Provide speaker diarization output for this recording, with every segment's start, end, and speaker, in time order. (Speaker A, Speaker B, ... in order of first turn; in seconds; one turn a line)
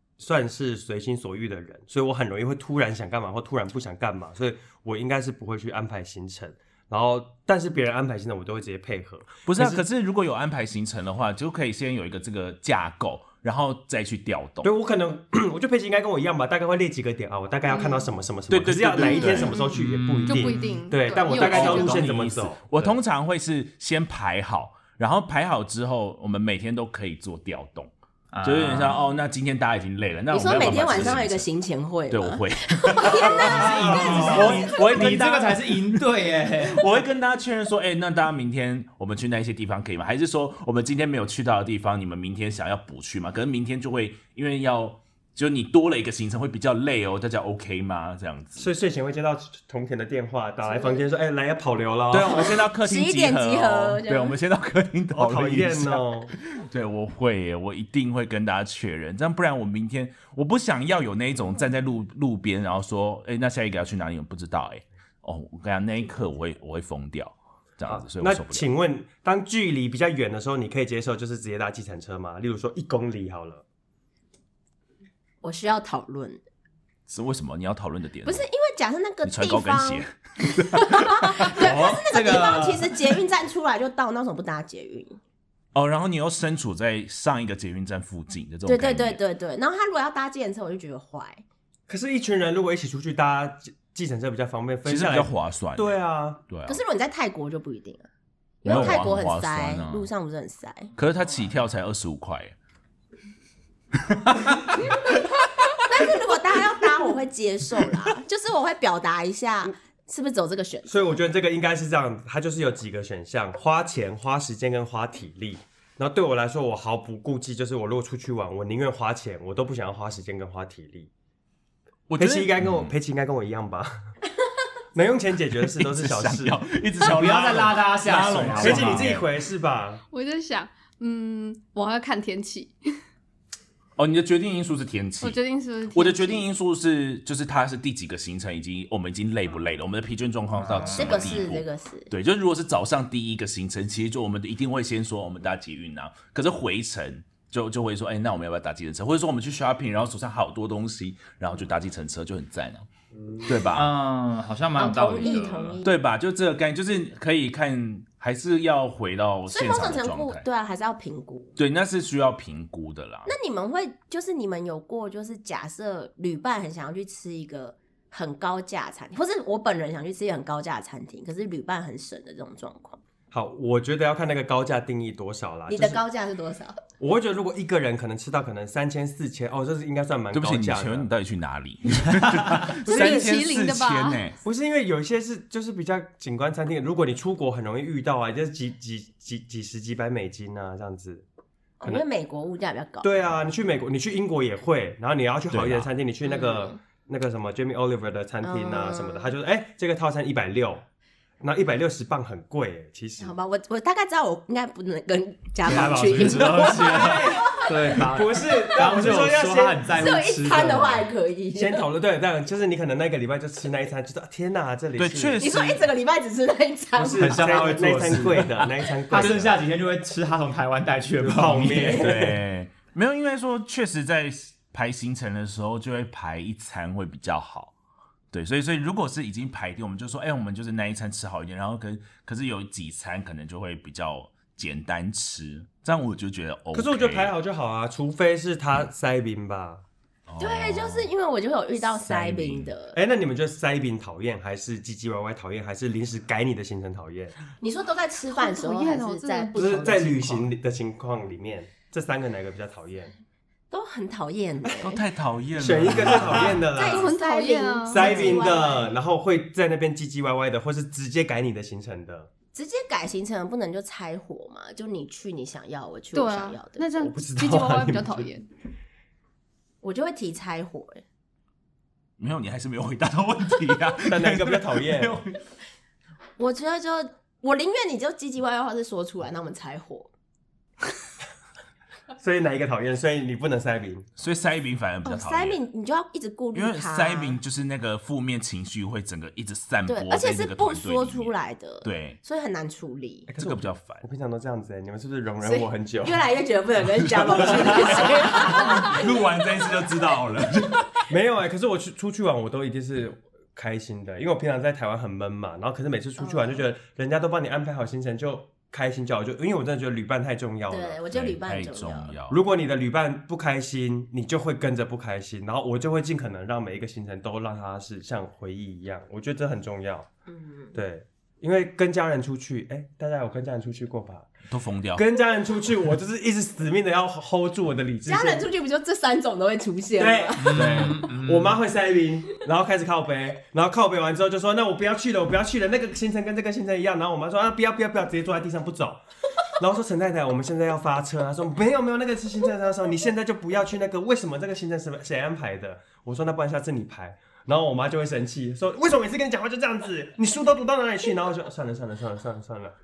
Speaker A: 0.2-9.8
Speaker B: 9.5-14.7
Speaker A: 14.6-23.0
Speaker C: 17.7-18.0
Speaker B: 18.5-19.6
Speaker C: 19.0-22.0
Speaker D: 19.7-20.8
Speaker B: 21.3-27.9
Speaker D: 28.3-29.0
Speaker B: 28.4-31.5
Speaker E: 30.3-35.0
Speaker B: 32.1-36.0
Speaker D: 33.1-36.9
Speaker A: 34.0-34.4
Speaker B: 36.6-48.7
Speaker A: 48.6-52.6
Speaker E: 50.7-51.0
Speaker B: 52.1-68.7
Speaker E: 52.3-54.4
Speaker A: 55.1-56.3
Speaker A: 67.8-73.6
Speaker E: 75.4-76.4
Speaker B: 77.1-78.5
Speaker E: 78.2-85.2
Speaker B: 79.2-81.5
Speaker D: 81.4-83.2
Speaker B: 85.7-89.2
Speaker E: 88.7-91.4
Speaker A: 91.9-96.4
Speaker B: 94.8-96.0
Speaker B: 96.5-96.8
Speaker E: 96.7-98.1
Speaker E: 98.6-100.9
Speaker B: 98.7-100.1
Speaker B: 101.0-102.5
Speaker E: 105.8-111.2
Speaker A: 110.9-121.1
Speaker B: 122.1-122.9
Speaker A: 122.2-123.9
Speaker A: 125.0-126.6
Speaker B: 125.6-129.1
Speaker D: 127.0-129.3
Speaker A: 128.0-130.0
Speaker C: 130.1-132.8
Speaker B: 134.0-135.4
Speaker C: 135.2-136.5
Speaker B: 135.9-152.9
Speaker D: 140.6-141.2
Speaker E: 140.9-142.1
Speaker B: 153.4-153.9
Speaker D: 153.7-155.8
Speaker E: 154.8-155.9
Speaker B: 155.8-160.5
Speaker E: 159.5-161.5
Speaker B: 161.6-163.3
Speaker E: 163.3-173.0
Speaker A: 173.3-176.0
Speaker E: 175.7-176.8
Speaker A: 177.0-181.1
Speaker B: 180.3-184.4
Speaker C: 182.8-184.2
Speaker A: 184.4-191.3
Speaker E: 191.8-193.3
Speaker A: 193.0-200.8
Speaker B: 195.5-195.9
Speaker E: 196.2-196.8
Speaker E: 198.4-199.3
Speaker A: 201.4-203.3
Speaker E: 203.2-208.1
Speaker D: 205.6-211.1
Speaker A: 206.5-210.1
Speaker E: 209.9-211.8
Speaker A: 211.5-215.4
Speaker B: 215.0-215.9
Speaker E: 215.4-217.9
Speaker A: 217.0-219.6
Speaker D: 217.2-222.1
Speaker A: 221.2-222.4
Speaker B: 221.9-227.7
Speaker B: 228.3-237.3
Speaker A: 236.7-239.8
Speaker B: 240.3-241.1
Speaker E: 240.4-243.0
Speaker B: 241.9-242.7
Speaker A: 242.9-247.3
Speaker E: 247.6-250.4
Speaker C: 248.3-250.0
Speaker A: 249.6-253.1
Speaker E: 253.7-255.1
Speaker B: 254.8-256.7
Speaker A: 255.6-257.1
Speaker E: 256.4-259.0
Speaker C: 256.8-258.6
Speaker A: 257.9-262.3
Speaker E: 262.5-266.9
Speaker C: 266.1-268.5
Speaker A: 267.0-268.3
Speaker E: 269.8-271.0
Speaker B: 272.2-275.4
Speaker A: 274.1-275.2
Speaker E: 276.4-280.1
Speaker A: 282.2-284.1
Speaker B: 284.2-285.6
Speaker E: 285.1-287.4
Speaker B: 286.5-292.2
Speaker E: 289.9-293.3
Speaker A: 293.3-296.2
Speaker B: 293.4-294.0
Speaker E: 295.4-299.9
Speaker B: 297.0-300.9
Speaker A: 301.1-311.0
Speaker E: 306.2-306.6
Speaker E: 310.7-312.2
Speaker B: 311.1-312.4
Speaker A: 312.3-320.1
Speaker E: 320.3-320.8
Speaker A: 320.7-324.3
Speaker B: 324.5-325.1
Speaker A: 324.9-328.5
Speaker E: 328.1-330.9
Speaker A: 330.0-352.8
Speaker D: 330.4-331.6
Speaker B: 330.6-331.0